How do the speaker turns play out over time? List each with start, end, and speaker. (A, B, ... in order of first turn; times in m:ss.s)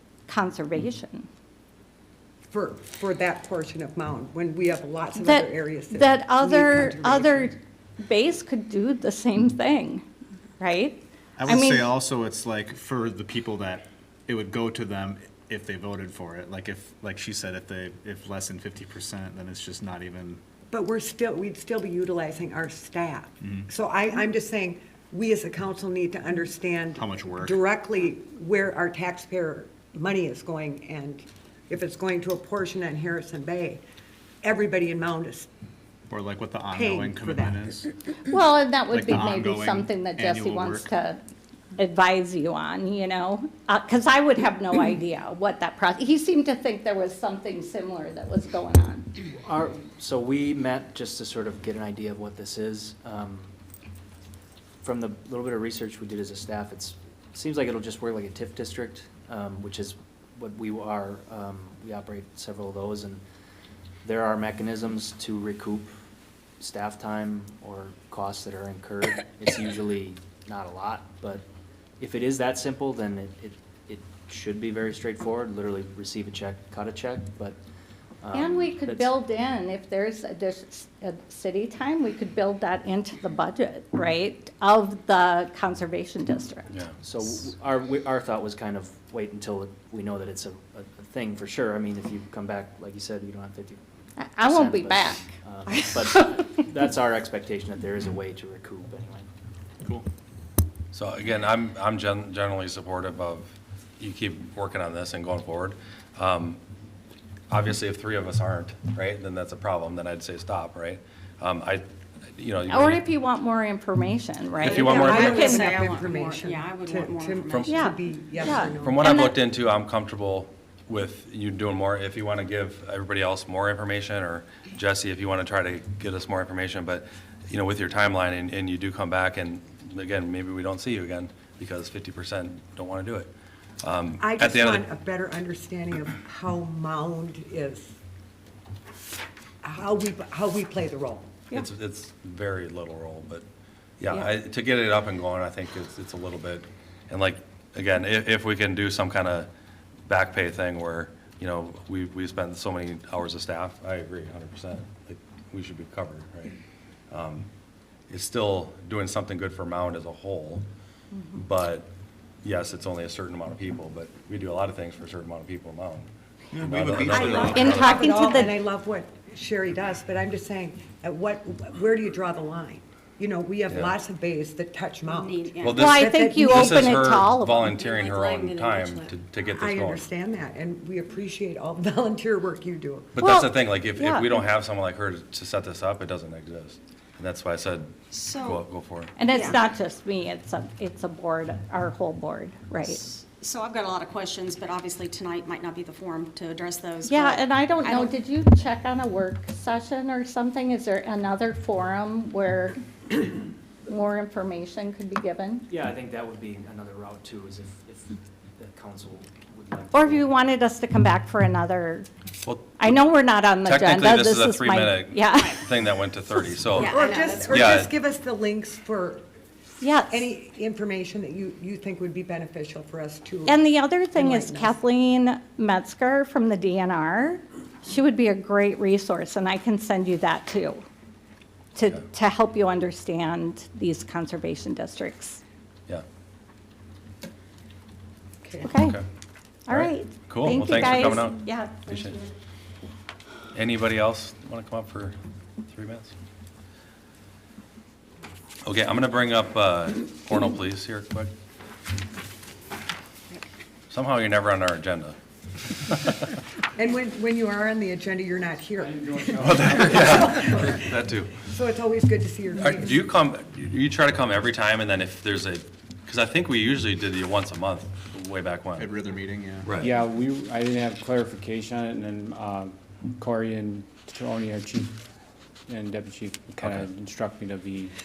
0:00.3-0:01.3 A
0:02.5-0:07.5 B
0:05.2-0:10.0 A
0:10.6-0:11.9 A
0:11.4-0:20.4 C
0:20.7-0:33.8 B
0:27.0-0:27.6 C
0:34.4-0:35.5 B
0:36.1-0:37.8 C
0:36.7-0:37.7 B
0:38.3-0:41.2 A
0:38.9-0:40.9 C
0:41.8-0:49.0 A
0:49.3-0:53.5 D
0:54.8-1:03.2 D
1:04.0-1:05.9 D
1:06.6-1:11.4 D
1:12.0-1:17.6 D
1:18.2-1:19.1 D
1:18.3-1:26.7 A
1:27.0-1:33.8 D
1:34.2-1:36.2 A
1:34.4-1:39.3 D
1:39.8-1:40.1 C
1:40.9-1:46.6 E
1:47.5-1:53.0 E
1:52.7-1:55.7 A
1:54.6-1:55.6 E
1:54.6-1:59.1 B
1:54.8-1:57.8 F
1:57.5-1:57.8 E
1:57.7-1:59.4 A
1:58.8-2:13.3 E
2:13.8-2:14.8 E
2:14.2-2:18.0 B
2:19.6-2:21.3 B
2:21.5-2:23.4 E
2:24.0-2:29.5 E
2:30.0-2:36.6 E
2:37.1-2:37.5 E
2:38.1-2:40.6 E
2:41.1-2:41.4 A
2:41.3-2:41.9 E
2:42.4-2:48.2 E
2:46.6-2:47.6 C
2:47.0-2:57.3 B
2:47.4-2:48.6 A
2:53.7-2:53.9 E
2:55.0-2:55.7 F
2:55.6-3:00.1 E
2:55.7-2:57.7 A
2:57.7-2:59.1 F
2:59.5-3:03.1 B
3:03.1-3:09.1 E
3:03.2-3:04.4 A
3:08.1-3:08.6 F
3:09.2-3:13.1 A
3:13.1-3:17.4 F
3:17.0-3:22.8 A
3:17.9-3:18.1 F
3:23.8-3:25.7 A
3:25.7-3:30.3 D
3:29.9-3:32.1 A
3:32.4-3:32.9 E
3:32.8-3:35.7 A
3:33.6-3:37.9 E
3:36.8-3:39.2 B
3:36.8-3:37.7 F
3:39.8-3:40.3 A
3:40.1-3:44.8 B
3:43.4-3:50.8 A
3:51.7-3:55.4 A
3:58.4-3:58.7 B
3:58.6-3:59.0 A
3:58.7-3:59.0 E
3:59.7-4:02.3 A
3:59.7-4:02.2 E
4:03.5-4:05.1 E
4:05.7-4:06.1 E
4:08.6-4:11.3 E
4:13.9-4:15.2 E
4:15.9-4:16.2 E
4:16.8-4:23.0 B
4:19.0-4:19.6 G
4:19.4-4:21.3 E
4:22.6-4:28.9 E
4:28.8-4:29.8 C
4:29.6-4:29.9 E
4:29.8-4:35.0 G
4:35.7-4:37.9 G